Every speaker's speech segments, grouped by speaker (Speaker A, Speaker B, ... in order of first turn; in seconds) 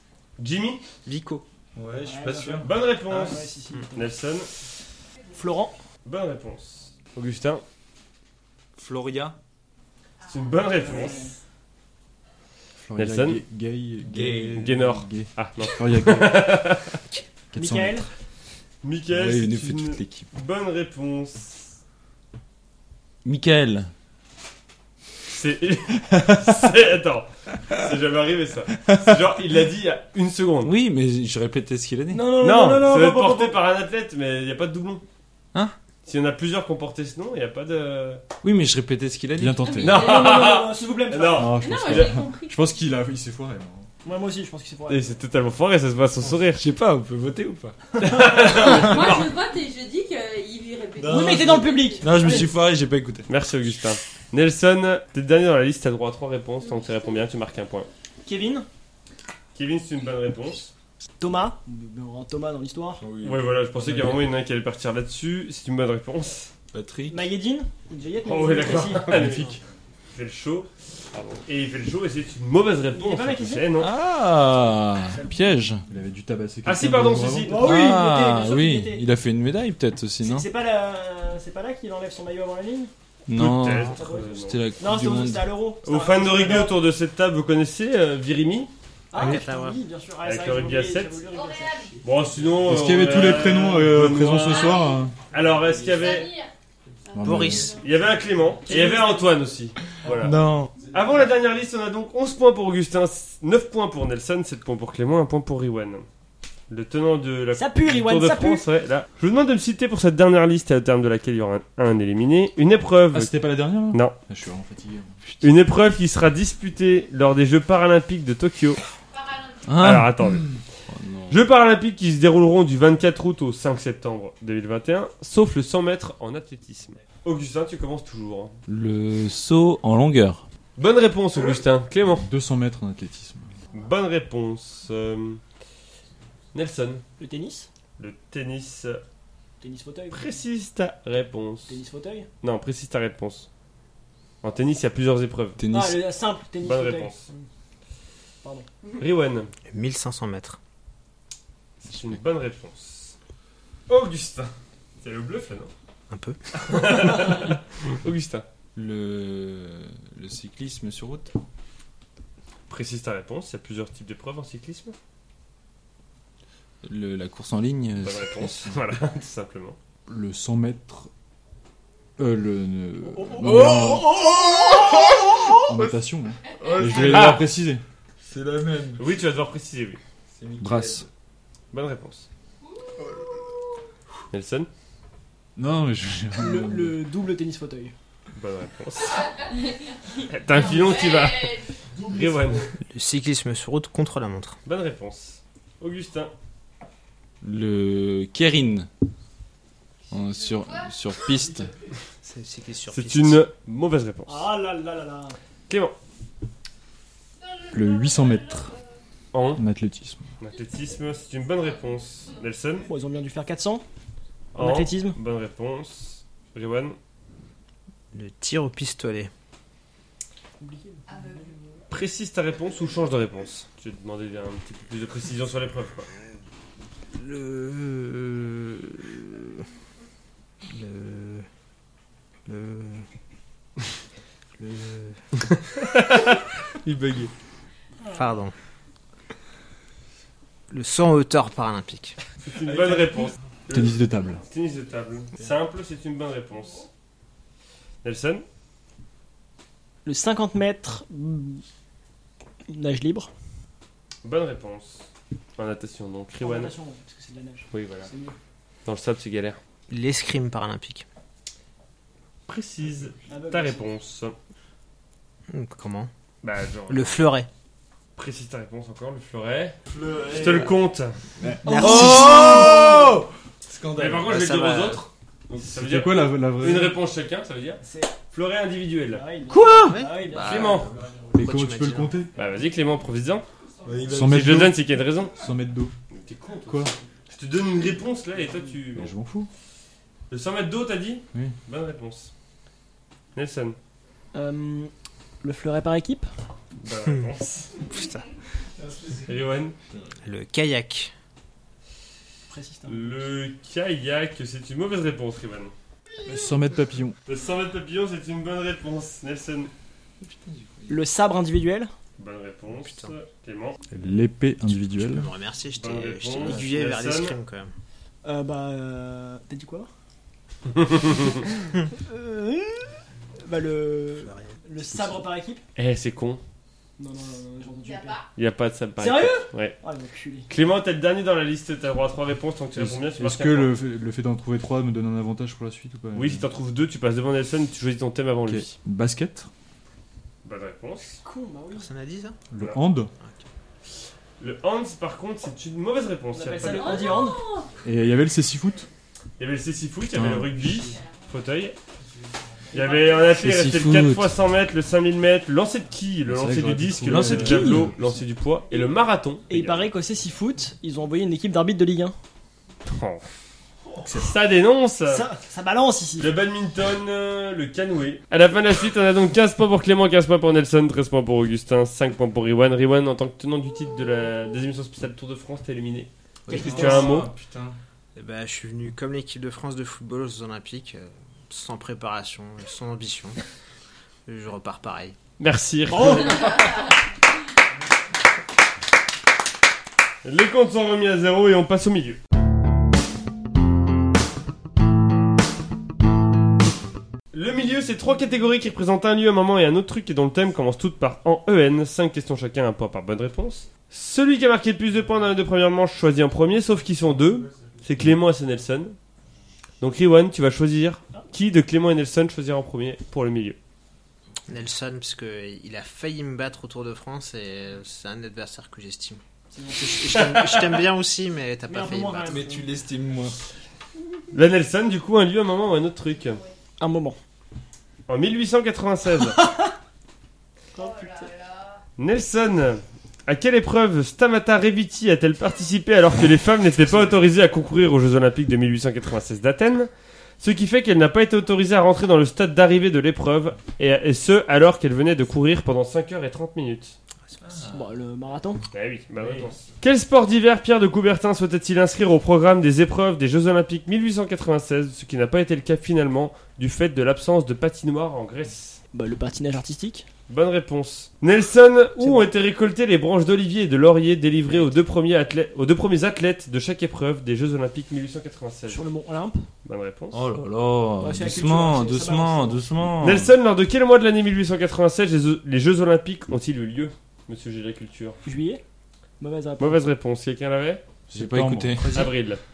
Speaker A: 0.4-0.8, 2.6-4.5, 6.0-7.6, 10.2-11.2, 12.9-13.4, 14.5-17.0, 18.8-21.7, 25.3-30.7, 32.4-35.0, 36.0-38.2, 39.8-42.2, 44.9-46.6, 48.0-49.3, 53.3-57.9, 59.5-60.7, 63.2-66.5, 68.2-69.6, 70.1-73.9, 76.6-77.8, 83.3-84.6, 85.8-88.7, 90.2-91.1, 92.0-96.4, 97.8-106.0, 106.7-114.2, 115.4-118.8, 119.8-120.6, 121.3-128.6, 130.8-132.3, 133.7-135.4, 136.5-137.0, 138.0-139.0, 140.1-141.7, 142.4-143.5, 144.4-145.6, 146.6-147.2, 148.9-149.5, 151.8-153.1, 153.9-155.7, 156.5-158.4, 162.7-164.9, 168.0-169.8, 177.0-177.5, 179.0-180.0, 181.7-182.2, 184.3-184.7, 188.3-189.4, 190.3-192.7, 194.7-196.3, 202.9-204.5, 205.7-205.9, 209.3-209.6, 210.4-212.9, 214.5-216.9, 221.9-226.1, 235.8-237.3, 242.4-246.9, 248.0-248.4, 254.2-255.1, 255.6-256.7, 257.7-258.1, 258.9-259.6, 262.5-264.3, 266.4-267.2, 268.1-269.8, 270.3-271.2, 273.9-279.2, 280.4-280.9, 282.3-283.4, 284.1-285.3, 286.1-289.1, 290.3-292.3, 293.3-293.8, 296.8-297.7, 299.2-299.7, 302.9-305.7, 307.2-309.7, 312.2-313.8, 315.7-317.4, 320.7-321.4, 325.8-326.4, 328.4-329.7, 330.5-333.7, 336.1-338.7, 340.4-341.2, 344.4-347.2, 349.4-351.8, 352.7-359.9, 362.9-363.2, 364.1-365.2, 366.2-377.3, 385.4-386.8, 390.2-392.2, 397.3-408.9, 409.8-413.6, 420.1-420.9, 424.3-426.4, 428.1-429.4, 432.0-439.9, 440.4-446.9, 448.7-458.8, 460.3-468.8, 469.6-470.2, 473.0-478.2, 479.6-480.8, 481.9-482.4
Speaker B: 1.0-1.4, 89.1-89.8, 97.2-97.8, 149.7-150.6, 156.1-156.4, 192.9-194.6, 202.2-203.4, 218.1-219.3, 227.1-229.6, 230.7-231.5, 232.4-233.1, 234.6-235.2, 238.1-238.5, 240.7-242.2, 259.9-261.0, 265.5-266.1, 266.9-267.5, 271.8-273.0, 274.2-275.0, 279.5-282.2, 297.8-298.2, 300.2-301.1, 312.7-313.1, 314.7-317.7, 324.2-325.1, 341.7-342.4, 378.1-383.4, 384.2-385.1, 414.5-419.2, 419.8-422.4
Speaker C: 1.7-2.7, 8.8-9.3, 14.1-14.8, 19.1-20.3, 23.2-23.9, 30.6-32.3, 38.4-39.7, 46.5-47.8, 51.0-53.3, 63.0-64.3, 66.7-67.3, 73.8-75.8, 77.6-80.5, 83.3-85.5, 100.1-100.8, 119.7-121.4, 128.7-130.4, 145.6-146.1, 158.7-161.3, 166.8-168.7, 173.2-176.0, 176.6-177.4, 178.2-179.1, 180.3-181.1, 197.4-198.9, 200.1-201.7, 269.9-270.7, 271.7-274.2, 283.8-284.5, 310.2-311.0, 353.3-354.3, 357.0-357.9, 376.5-377.8, 422.2-423.3, 447.4-447.8, 470.1-473.3, 481.1-482.1
Speaker D: 2.0-4.2, 5.3-5.8, 10.8-11.3, 17.5-18.1, 32.1-33.5, 39.9-41.6, 44.0-45.1, 48.0-48.8, 51.0-52.5, 58.2-58.7, 61.2-63.0, 67.1-69.1, 72.9-73.7, 75.1-75.4, 77.5-79.0, 80.2-82.9, 83.9-86.8, 89.1-91.9, 98.6-99.3, 107.5-108.7, 137.2-137.7, 139.6-140.3, 141.7-142.3, 145.7-147.4, 148.4-148.7, 186.4-187.9, 204.3-205.4, 212.8-213.8, 214.5-215.2, 220.6-221.6, 238.0-238.3, 250.0-251.6, 252.7-253.3, 256.4-258.4, 263.3-263.9, 271.6-272.9, 277.8-278.1, 279.1-280.8, 294.3-294.9, 295.4-296.3, 302.5-303.3, 310.9-311.9, 318.2-319.9, 321.9-325.6, 327.0-328.2, 329.0-330.5, 341.2-341.9, 346.3-347.4, 352.7-353.2, 357.3-357.8, 359.5-362.1, 365.1-366.3, 376.5-377.1, 385.9-386.8, 419.5-420.3, 421.7-422.7, 426.8-427.2, 429.3-429.7, 430.7-431.3, 447.7-448.6, 458.9-460.1, 462.0-462.3, 468.7-469.5, 471.0-472.7, 478.2-478.6, 479.2-479.8
Speaker E: 10.3-11.1, 39.6-40.4, 41.5-42.6, 48.5-52.5, 91.3-92.0, 94.4-94.9, 95.8-96.5, 97.1-97.8, 119.1-119.7, 189.1-189.9, 190.5-191.7, 200.4-200.9, 207.4-208.8, 221.1-221.8, 327.8-328.3, 346.7-347.7, 350.9-351.2, 426.2-426.5, 430.8-431.8
Speaker F: 12.8-16.7, 17.5-18.1, 39.4-40.2, 41.3-43.9, 69.1-69.6, 75.9-77.5, 92.6-95.2, 97.1-97.8, 113.1-115.2, 132.2-133.5, 170.1-171.1, 172.2-174.1, 175.6-177.8, 180.6-181.0, 185.6-186.9, 207.7-208.7, 209.5-210.3, 243.7-244.4, 271.4-272.5, 275.6-277.0, 281.3-282.3, 284.1-284.8, 285.3-285.9, 286.7-286.9, 288.9-289.5, 306.2-307.2, 313.9-315.3, 332.8-336.5, 338.4-339.5, 342.5-343.1, 347.8-348.9, 350.1-350.8, 356.3-357.9, 364.0-364.4, 481.1-482.1